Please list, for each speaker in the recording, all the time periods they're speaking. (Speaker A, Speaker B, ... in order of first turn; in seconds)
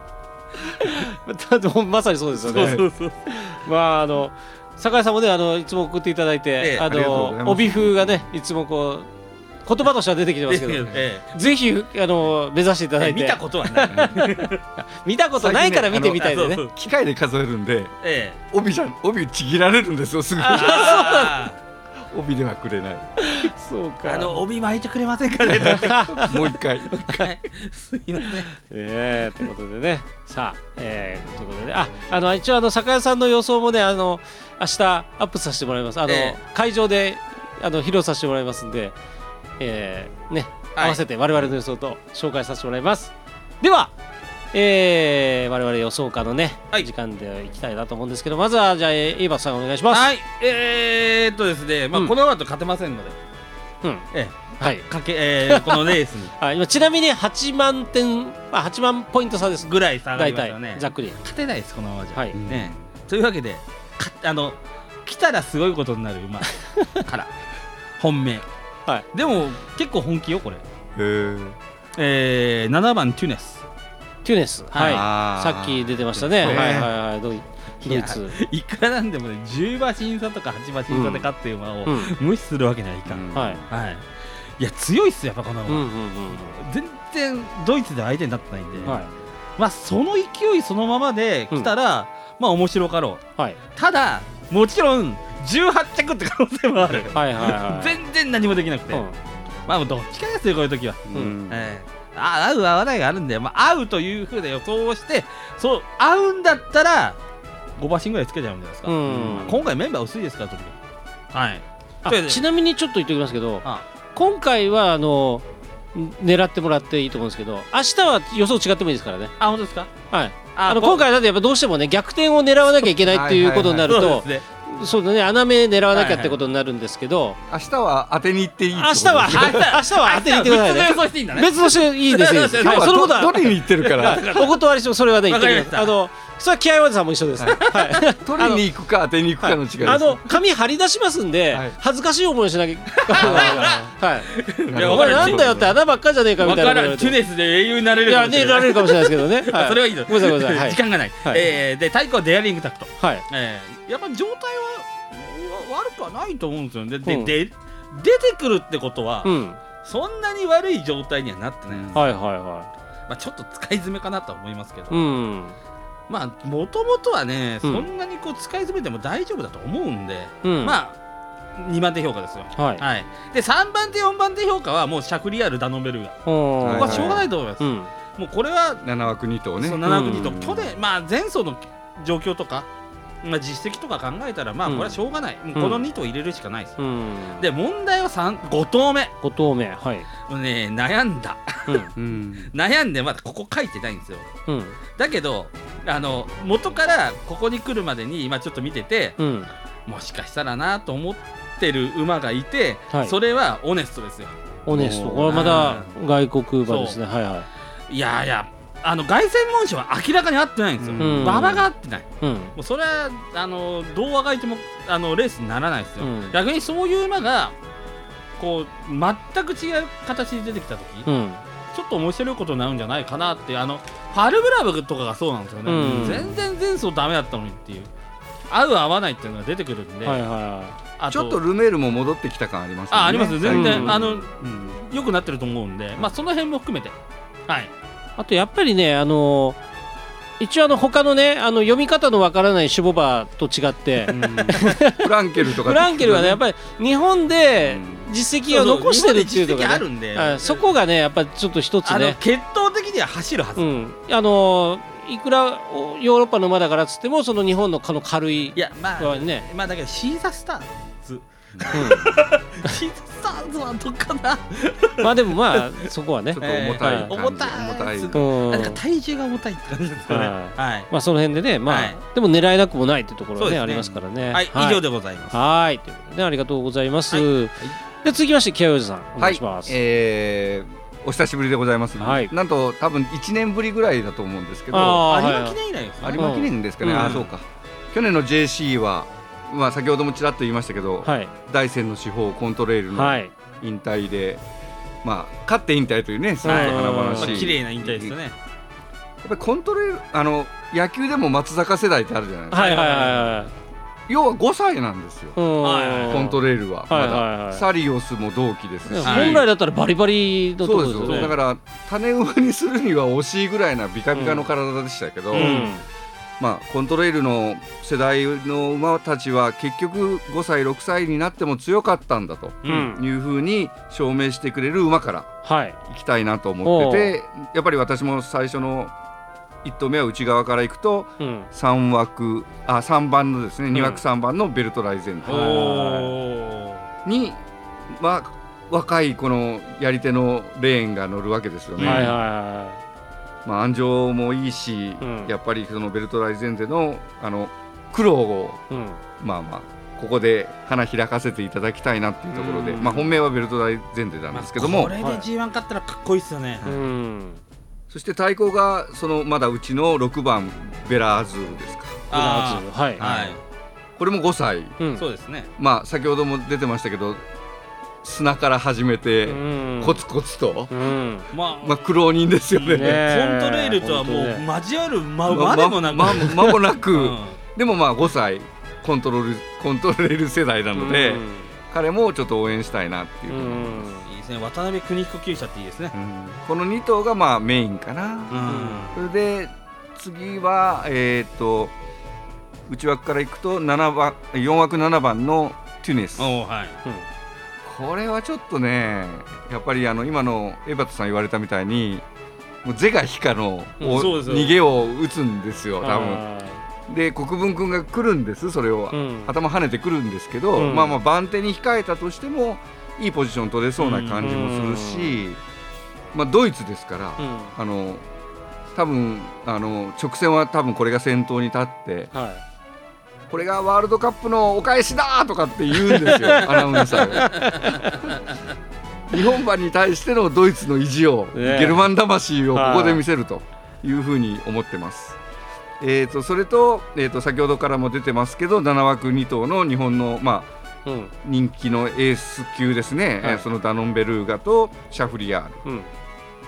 Speaker A: 0.8-9.1, 9.7-16.6, 20.4-21.3, 23.2-24.4, 25.7-26.3, 28.6-39.0, 39.6-43.9, 44.5-50.1, 54.6-54.9, 55.5-61.2, 74.2-78.4, 80.9-81.3, 81.9-82.1, 83.3-83.6, 85.7-86.6, 88.8-89.1, 97.1-98.0, 108.9-109.6, 112.0-119.3, 120.1-127.4, 128.8-138.6, 139.4-147.2, 148.1-151.5, 153.0-153.2, 157.1-157.3, 159.2-159.6, 161.9-162.7, 164.9-165.6, 170.4-170.8, 172.6-172.8, 176.3-177.9, 179.8-180.4, 184.7-185.0, 185.6-185.9, 186.8-187.5, 189.2-190.1, 194.5-194.8, 199.2-199.5, 204.7-207.5, 211.0-211.7, 212.2-212.5, 216.0-216.3, 221.1-221.4, 225.7-226.4, 230.0-230.8, 233.5-234.1, 238.2-239.6, 240.4-252.2, 253.6-259.5, 261.7-262.1, 265.0-267.1, 268.1-268.8, 270.1-279.8, 282.0-282.3, 284.7-285.6, 286.2-287.2, 291.1-291.3, 292.9-293.3, 296.4-297.5, 302.5-303.5, 305.4-307.6, 308.9-311.4, 314.1-314.5, 315.3-315.8, 322.7-323.0, 325.4-325.8, 326.6-327.2, 331.2-331.5, 333.8-334.0, 335.2-336.2, 341.8-342.8, 345.0-345.3, 348.7-349.0, 352.3-353.0, 355.0-355.3, 356.6-357.4, 362.1-363.0, 364.8-365.1, 369.3-370.0, 370.7-371.3, 372.7-374.4, 380.8-381.5, 383.3-384.1, 388.5-388.9, 403.8-404.1, 405.8-406.6, 408.9-409.3, 410.6-411.0, 414.2-415.2, 417.2-417.5, 422.1-422.4, 425.8-428.1, 431.3-431.9, 432.5-433.0, 440.9-441.1, 445.6-445.9
Speaker B: 2.4-3.2, 6.6-6.9, 10.5-11.4, 13.0-14.6, 16.1-16.7, 18.0-18.4, 20.5-21.6, 24.1-26.3, 26.9-28.5, 36.1-36.4, 49.9-53.2, 54.1-56.3, 59.6-67.3, 68.0-68.5, 69.1-70.6, 72.0-73.6, 74.7-75.0, 76.4-76.8, 77.8-84.0, 84.6-89.0, 89.6-93.2, 93.8-99.0, 99.7-107.2, 107.8-110.8, 111.3-112.4, 119.4-119.9, 120.6-121.0, 123.9-124.4, 125.9-126.4, 129.3-134.6, 135.3-135.9, 143.0-145.4, 146.4-162.0, 163.1-165.1, 166.1-171.0, 171.6-178.8, 179.6-182.7, 183.2-186.8, 187.4-189.1, 190.3-191.9, 192.4-194.3, 194.9-199.2, 199.9-204.3, 205.2-205.9, 206.7-207.0, 207.9-217.6, 218.4-221.1, 221.7-227.9, 228.5-230.2, 231.0-231.4, 232.9-237.0, 244.1-244.5, 248.5-250.7, 251.8-253.6, 258.6-265.8, 266.4-270.9, 271.7-272.0, 273.4-275.4, 277.1-277.8, 285.1-286.3, 286.8-287.3, 296.5-298.4, 302.5-303.3, 305.6-306.3, 309.0-309.5, 311.1-311.3, 315.3-315.7, 322.6-322.9, 335.3-336.9, 341.8-342.2, 352.8-353.0, 354.3-356.6, 362.1-363.4, 365.0-365.5, 371.3-371.9, 372.5-377.4, 384.1-385.9, 388.3-389.0, 396.2-396.8, 403.9-404.6, 413.8-414.2
Speaker C: 2.5-2.9, 6.8-8.2, 13.9-14.2, 15.4-17.9, 18.5-21.3, 22.0-23.1, 26.1-27.0, 62.3-62.8, 71.0-71.6, 74.8-76.9, 83.1-83.7, 88.8-89.0, 96.8-97.2, 101.1-101.7, 109.1-109.6, 123.1-124.0, 127.5-129.7, 132.6-134.2, 137.4-140.4, 141.5-141.8, 143.2-143.8, 144.7-145.7, 161.7-162.1, 176.6-177.3, 178.8-180.8, 192.0-192.5, 204.7-205.6, 210.8-211.5, 225.8-226.4, 231.1-234.8, 244.1-246.4, 247.6-248.1, 261.6-261.9, 266.3-268.2, 279.2-285.1, 286.0-294.4, 295.0-298.1, 299.2-302.7, 304.1-305.4, 306.1-309.4, 310.6-315.7, 316.4-325.3, 325.9-328.9, 329.6-335.7, 337.1-342.2, 343.4-348.6, 349.2-354.9, 357.9-362.1, 363.0-363.4, 364.0-364.8, 365.6-367.2, 368.0-370.7, 371.6-373.0, 375.3-383.9, 385.9-391.7, 392.7-396.4, 397.6-402.1, 402.6-406.2, 406.9-415.4, 416.1-418.1, 418.7-422.1, 423.3-427.8, 429.1-435.2, 435.8-440.5, 441.2-445.6